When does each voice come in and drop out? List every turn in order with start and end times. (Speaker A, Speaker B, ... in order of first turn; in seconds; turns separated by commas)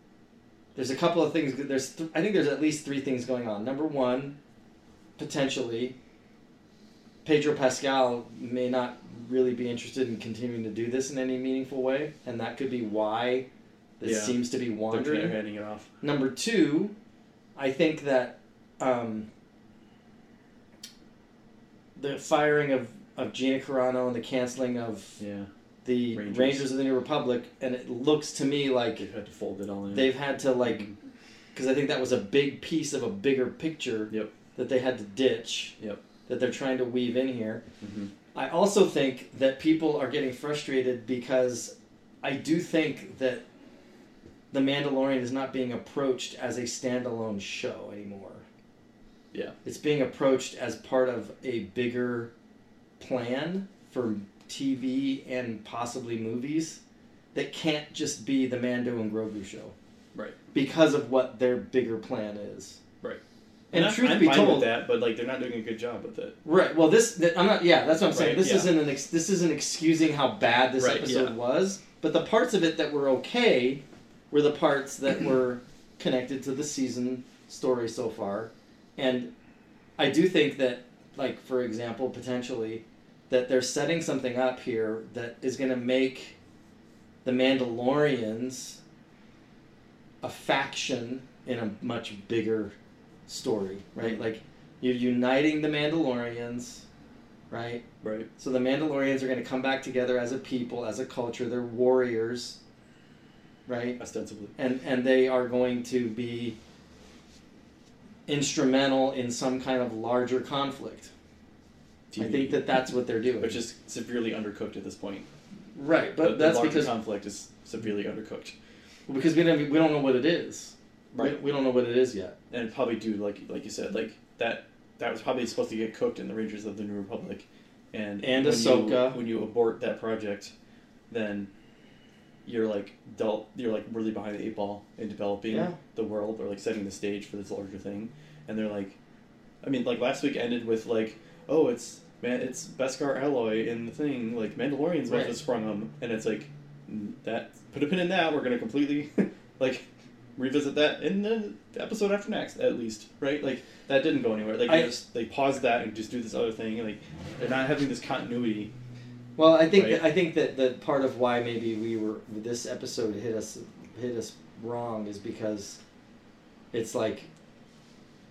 Speaker A: 0.7-4.4, Speaker A: 5.2-5.9, Speaker A: 7.2-13.5, Speaker A: 14.0-15.4, Speaker B: 14.0-15.9, Speaker A: 16.0-16.9, Speaker A: 17.6-19.3, Speaker A: 21.9-25.2, Speaker B: 25.2-25.5, Speaker A: 25.8-29.1, Speaker B: 26.1-26.7, Speaker B: 29.0-30.9, Speaker A: 29.9-30.9, Speaker A: 31.5-35.8, Speaker A: 36.3-37.6, Speaker B: 37.8-38.1, Speaker A: 38.3-43.4, Speaker A: 44.5-48.4, Speaker A: 49.6-52.3, Speaker A: 53.0-56.8, Speaker A: 57.3-59.7, Speaker A: 60.5-62.8, Speaker A: 63.7-64.7, Speaker B: 63.7-66.4, Speaker A: 66.4-79.3, Speaker B: 68.1-68.7, Speaker B: 70.8-71.3, Speaker A: 80.0-86.4, Speaker A: 87.2-88.8, Speaker A: 90.2-92.7, Speaker A: 93.3-96.8, Speaker A: 97.5-97.8, Speaker B: 98.0-98.3, Speaker A: 98.4-102.6, Speaker A: 103.7-104.0, Speaker B: 104.0-104.5, Speaker A: 104.5-106.6, Speaker A: 108.3-111.1, Speaker B: 112.1-112.8, Speaker A: 112.2-113.6, Speaker B: 113.4-115.3, Speaker A: 115.7-116.9, Speaker B: 116.2-118.5, Speaker A: 119.1-122.3, Speaker B: 122.5-130.5, Speaker A: 128.2-129.2, Speaker B: 131.1-131.5, Speaker B: 132.4-138.9, Speaker A: 135.5-135.8, Speaker B: 139.6-149.8, Speaker A: 145.1-145.3, Speaker B: 150.4-158.7, Speaker A: 154.7-154.9, Speaker A: 159.4-165.8, Speaker B: 159.7-160.0, Speaker A: 166.7-167.3